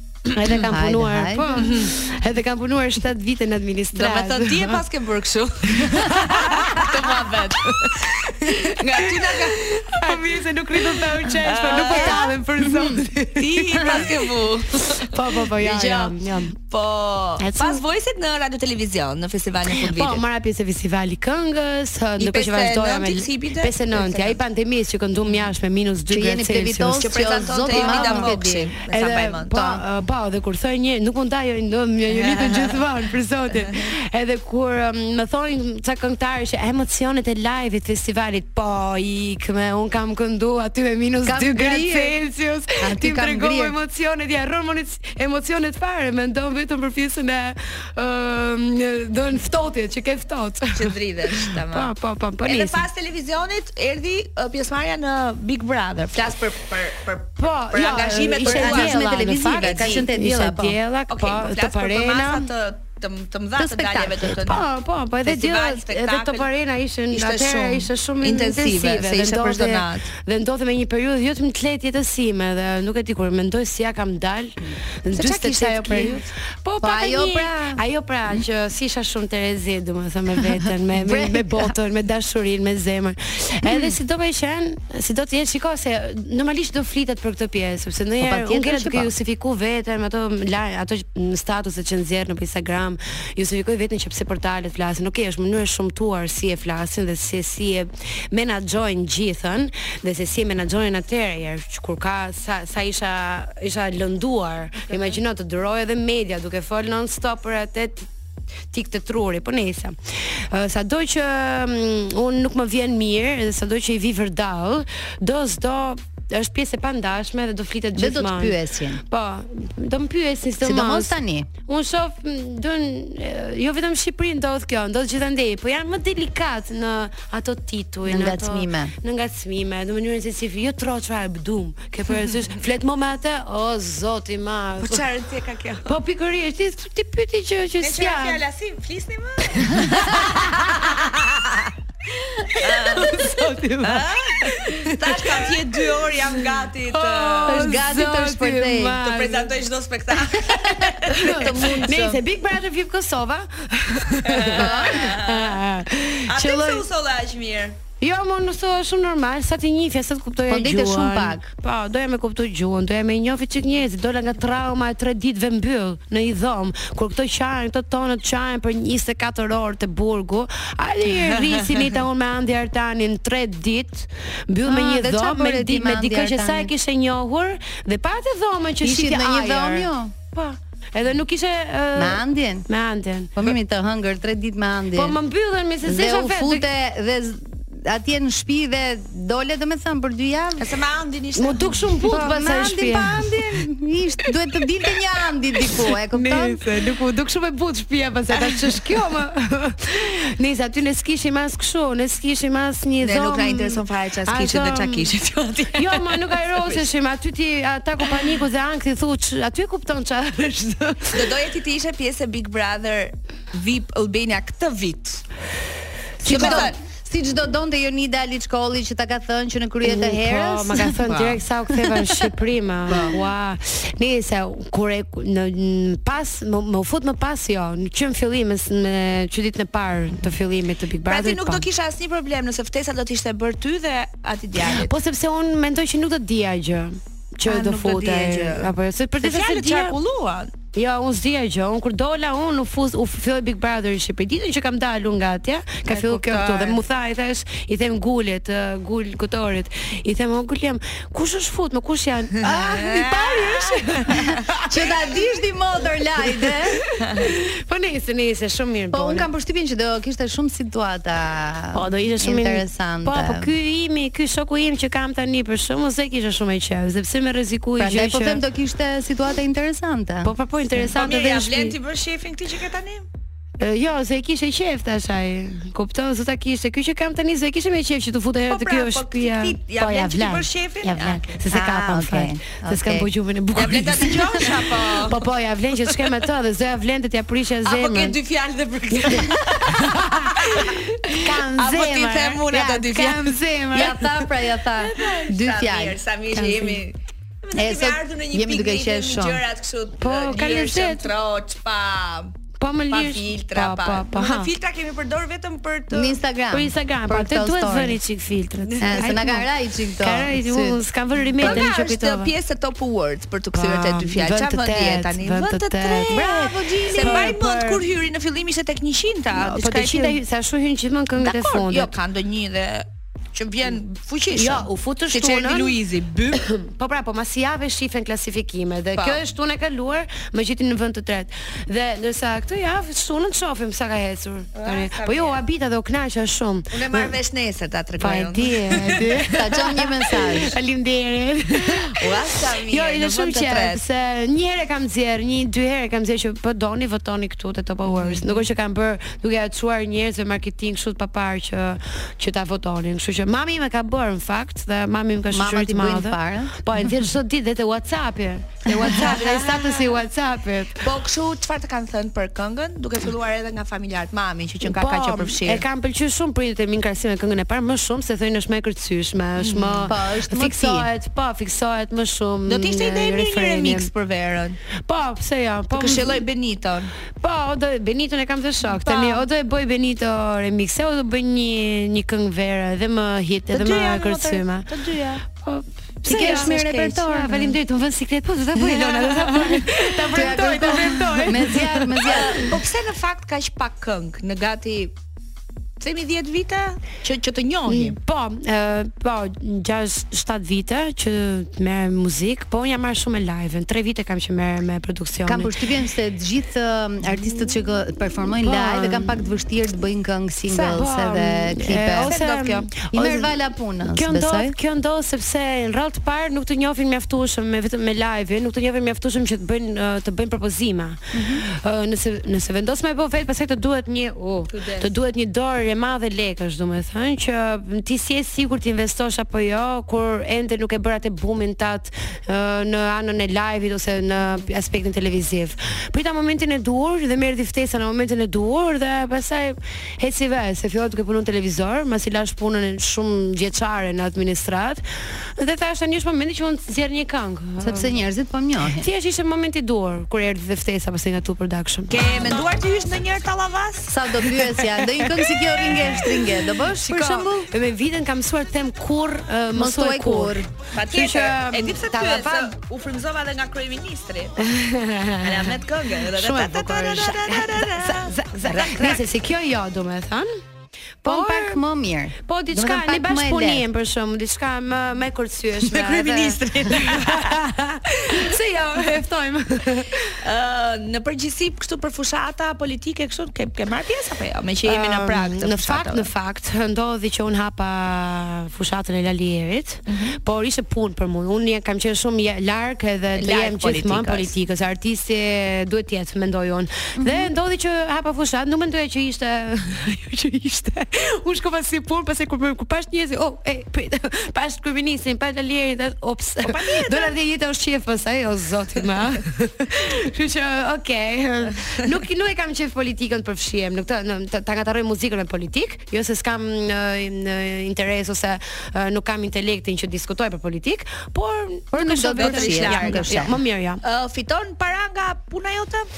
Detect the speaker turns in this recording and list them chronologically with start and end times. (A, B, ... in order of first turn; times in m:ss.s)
0:00.2-0:04.8 A
0:00.6-0:01.7 B
0:01.6-0:01.9 C
0:03.9-0:12.4 C
0:05.8-0:16.5 A
0:11.8-0:13.0 B
0:13.4-0:20.2 C
0:17.4-0:17.8 A
0:19.7-0:52.9 A
0:22.2-0:24.4 C
0:26.1-0:28.7 B
0:27.0-0:29.7 C
0:32.1-0:32.8 C
0:41.2-0:42.2 B
0:42.8-0:43.7 B
0:50.7-0:51.9 C
0:52.4-1:00.0 C
0:57.4-1:02.5 A
0:58.4-1:00.8 B
1:01.1-1:04.7 C
1:03.6-1:04.5 B
1:04.3-1:48.1 A
1:05.2-1:06.4 C
1:07.1-1:10.1 C
1:15.2-1:16.2 C
1:16.8-1:17.8 B
1:20.5-1:21.7 B
1:23.6-1:23.9 B
1:28.2-1:29.1 B
1:44.9-1:45.2 C
1:48.7-2:15.0 A
1:57.9-1:59.0 B
2:00.6-2:01.5 B
2:08.1-2:08.9 B
2:14.8-2:15.9 C
2:15.8-2:18.4 A
2:17.8-2:21.1 C
2:19.6-2:21.6 A
2:22.3-2:29.5 A
2:22.5-2:27.6 C
2:27.4-2:29.0 B
2:29.0-2:31.9 C
2:30.6-2:32.2 B
2:30.8-2:36.9 A
2:34.2-2:35.6 C
2:34.5-2:35.1 B
2:36.3-2:37.8 C
2:38.0-3:03.5 A
2:40.5-2:41.5 B
2:51.4-2:51.8 C
2:54.6-2:56.7 B
2:58.8-3:00.1 B
3:01.9-3:02.6 B
3:03.4-3:05.2 B
3:04.9-3:06.6 A
3:05.8-3:10.7 B
3:10.6-3:12.2 C
3:11.4-3:13.4 A
3:12.1-3:16.6 B
3:15.6-3:25.1 A
3:18.3-3:19.0 C
3:23.0-3:26.8 C
3:25.7-3:31.3 A
3:31.1-3:35.2 C
3:36.2-3:36.7 A
3:36.2-3:36.8 C
3:36.2-3:41.0 B
3:39.8-3:51.6 A
3:41.0-3:41.4 C
3:42.9-3:43.1 C
3:42.9-3:43.1 B
3:51.0-3:54.9 C
3:54.6-4:00.0 A
3:57.4-4:00.5 C
4:00.7-4:15.0 A
4:05.9-4:06.8 C
4:12.4-4:14.3 C
4:14.1-4:16.8 B
4:16.2-4:19.3 A
4:17.0-4:17.3 C
4:18.9-4:23.5 B
4:21.7-4:28.4 A
4:27.8-4:30.3 B
4:30.2-4:31.8 A
4:30.9-4:33.0 C
4:33.6-4:48.2 A
4:38.5-4:41.4 C
4:41.5-4:43.1 B
4:43.5-4:45.3 C
4:45.8-4:46.1 C
4:47.6-4:54.0 C
4:48.9-4:54.2 A
4:53.7-4:56.0 B
4:54.7-5:02.3 C
4:56.3-4:56.8 A
4:57.6-4:59.4 B
5:00.0-5:01.1 A
5:02.6-5:04.5 A
5:02.9-5:06.2 C
5:05.9-5:08.0 B
5:06.5-5:12.3 A
5:08.7-5:09.2 C
5:08.8-5:10.8 B
5:11.4-5:20.2 C
5:11.4-5:11.7 B
5:13.5-5:17.8 A
5:16.1-5:17.4 B
5:19.4-5:21.9 A
5:21.2-5:26.4 C
5:24.3-5:25.8 A
5:26.3-5:37.1 A
5:34.5-5:35.4 C
5:36.7-5:39.7 C
5:38.0-6:00.9 A
5:39.3-5:40.6 B
5:41.8-5:43.8 C
5:47.8-5:48.4 C
5:55.3-5:56.5 B
5:58.8-6:00.0 C
6:00.8-6:05.6 C
6:04.6-6:13.9 A
6:09.4-6:09.9 C
6:09.9-6:10.9 B
6:12.5-6:14.6 C
6:14.8-6:16.2 A
6:15.7-6:16.9 C
6:17.2-6:24.7 A
6:18.6-6:19.2 C
6:23.5-6:25.2 C
6:25.3-6:32.5 A
6:26.0-6:27.5 B
6:26.0-6:27.4 C
6:28.6-6:34.9 C
6:30.1-6:32.6 B
6:35.8-6:38.0 C
6:37.7-6:45.6 A
6:45.2-6:52.2 B
6:48.4-6:49.2 A
6:50.5-7:28.0 A
6:52.0-6:52.7 C
6:52.9-6:54.5 B
7:01.1-7:01.4 B
7:04.5-7:04.9 C
7:27.6-7:28.9 B
7:28.6-7:32.0 A
7:31.9-7:34.1 C
7:33.9-7:37.5 B
7:34.8-7:42.5 A
7:39.5-7:40.5 B
7:40.7-7:44.4 C
7:44.4-7:45.6 A
7:45.2-7:49.1 C
7:46.1-7:50.4 A
7:51.0-7:51.6 A
7:51.0-7:53.6 B
7:52.2-8:00.2 A
7:55.8-7:57.4 C
8:00.0-8:06.1 C
8:04.6-8:43.8 A
8:09.9-8:10.2 C
8:13.2-8:14.3 C
8:17.0-8:17.3 B
8:26.4-8:27.2 C
8:41.7-8:43.4 B
8:42.1-8:43.3 C
8:43.8-8:45.9 C